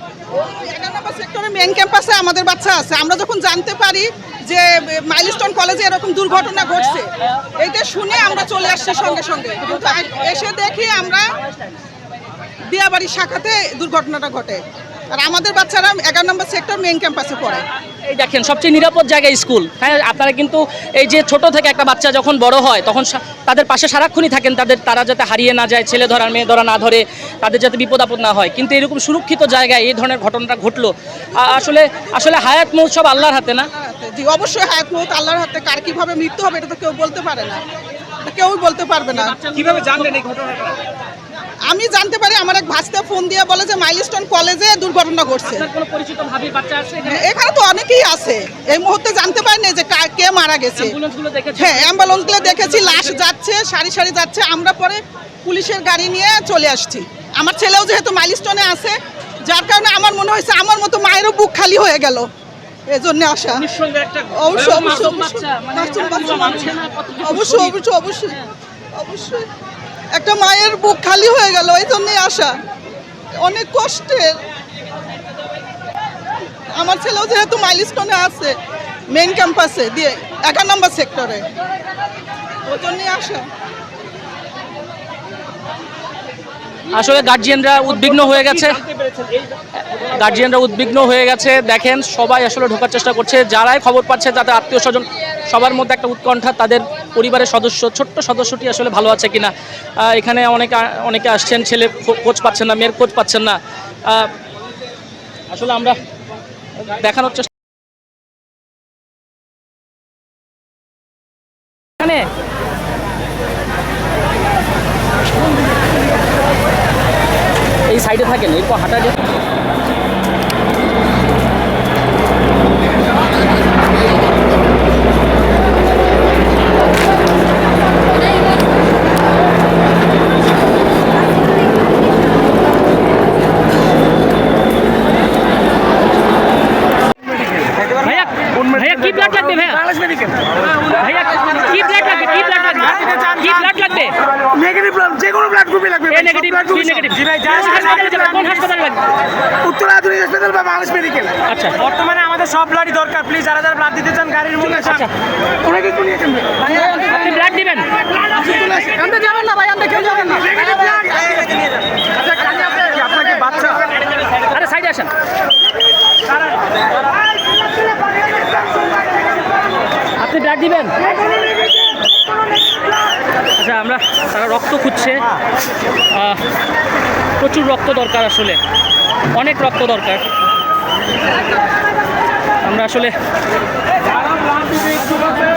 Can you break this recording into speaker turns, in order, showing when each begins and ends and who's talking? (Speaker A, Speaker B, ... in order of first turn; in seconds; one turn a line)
Speaker A: 0.3-11.3
Speaker A: 12.7-14.6
Speaker A: 15.1-17.6
Speaker B: 18.1-33.7
Speaker A: 31.4-32.5
Speaker A: 33.6-37.6
Speaker A: 38.2-39.3
Speaker B: 39.1-40.2
Speaker C: 39.5-40.8
Speaker A: 41.7-45.7
Speaker B: 45.4-47.3
Speaker A: 47.0-51.0
Speaker B: 50.7-53.2
Speaker A: 51.6-58.9
Speaker A: 59.5-62.3
Speaker A: 62.9-63.6
Speaker B: 63.6-67.7
Speaker A: 64.3-68.4
Speaker A: 69.0-69.5
Speaker A: 70.1-72.5
Speaker A: 73.4-74.4
Speaker A: 76.8-78.5
Speaker A: 79.1-81.4
Speaker A: 82.7-83.4
Speaker B: 86.9-88.8
Speaker C: 88.7-89.5
Speaker B: 89.8-104.3
Speaker B: 105.5-106.0
Speaker B: 106.8-107.5
Speaker B: 112.0-112.3
Speaker B: 117.9-119.2
Speaker B: 137.8-139.9
Speaker C: 139.9-140.4
Speaker B: 140.8-144.2
Speaker C: 142.9-143.7
Speaker C: 144.4-148.4
Speaker B: 146.1-149.1
Speaker C: 149.6-155.1
Speaker B: 151.5-151.9
Speaker B: 154.7-155.1
Speaker C: 155.6-156.5
Speaker B: 156.6-157.9
Speaker C: 158.5-159.1
Speaker B: 158.5-160.5
Speaker C: 160.4-161.4
Speaker C: 162.5-163.8
Speaker B: 164.3-165.1
Speaker B: 170.2-170.9
Speaker B: 173.6-175.3
Speaker B: 176.1-176.4
Speaker B: 177.4-178.6
Speaker B: 179.3-180.2
Speaker B: 182.6-183.1